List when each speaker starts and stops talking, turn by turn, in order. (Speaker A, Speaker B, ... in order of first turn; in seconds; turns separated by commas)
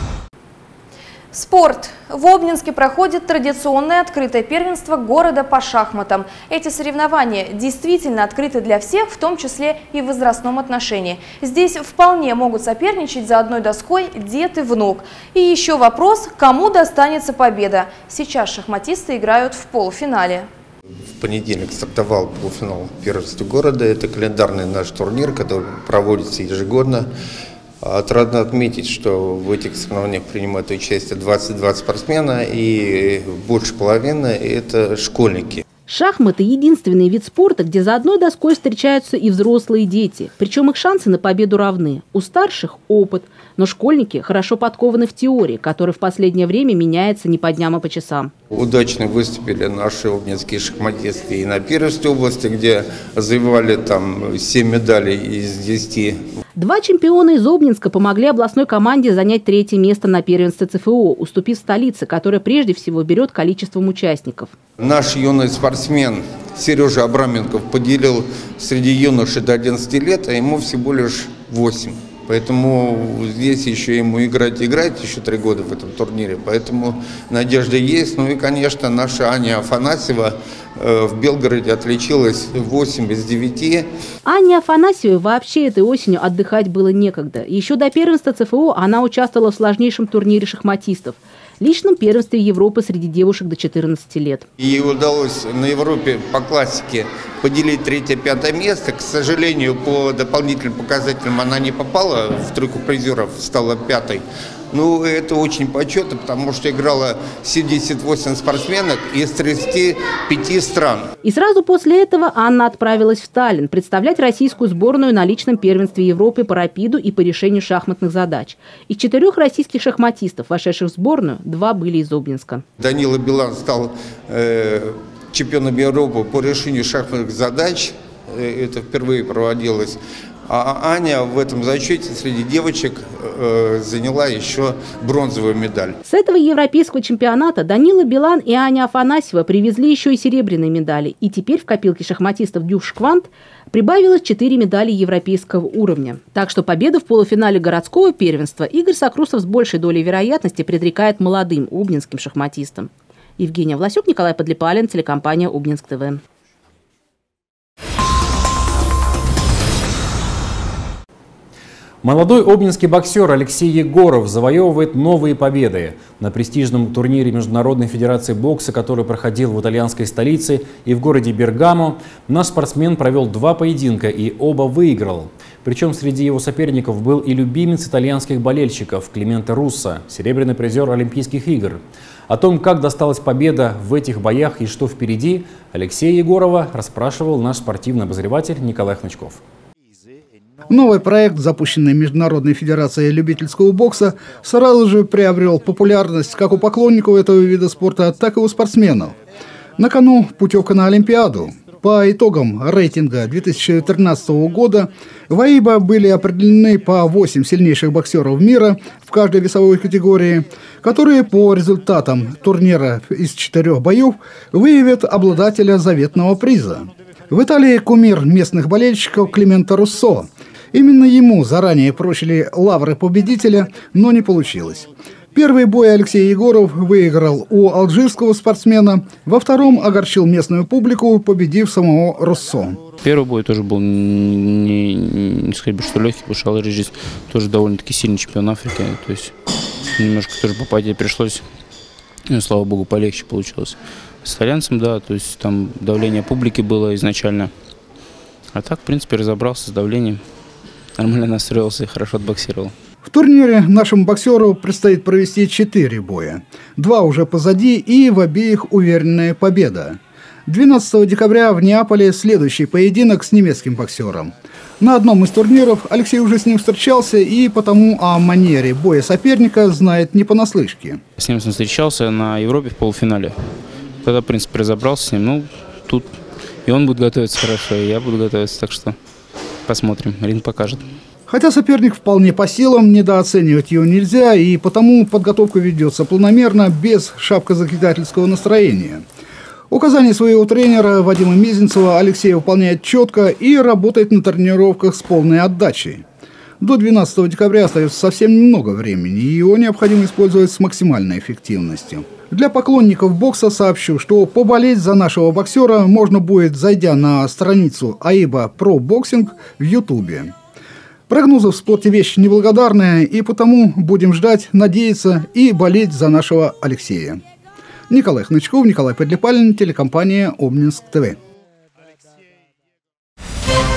Speaker A: 1.3-20.5, Speaker B: 21.2-27.1, Speaker B: 27.8-35.6, Speaker C: 35.9-48.3, Speaker B: 48.5-56.2, Speaker C: 56.5-64.5, Speaker B: 64.8-83.9, Speaker C: 84.2-94.4, Speaker B: 94.6-111.1, Speaker C: 111.2-122.6, Speaker B: 122.8-136.0, Speaker C: 136.0-156.2, Speaker D: 162.0-189.4, Speaker E: 190.7-199.2, Speaker E: 199.8-232.8, Speaker F: 233.0-239.3, Speaker F: 239.9-241.4, Speaker F: 242.3-247.5, Speaker F: 248.5-250.2, Speaker F: 250.9-252.7, Speaker E: 253.1-271.0, Speaker F: 271.2-273.4, Speaker F: 274.0-278.9, Speaker F: 279.7-280.8, Speaker E: 281.3-289.0, Speaker E: 289.7-296.0, Speaker E: 296.6-310.3, Speaker E: 311.1-317.2, Speaker E: 317.9-321.2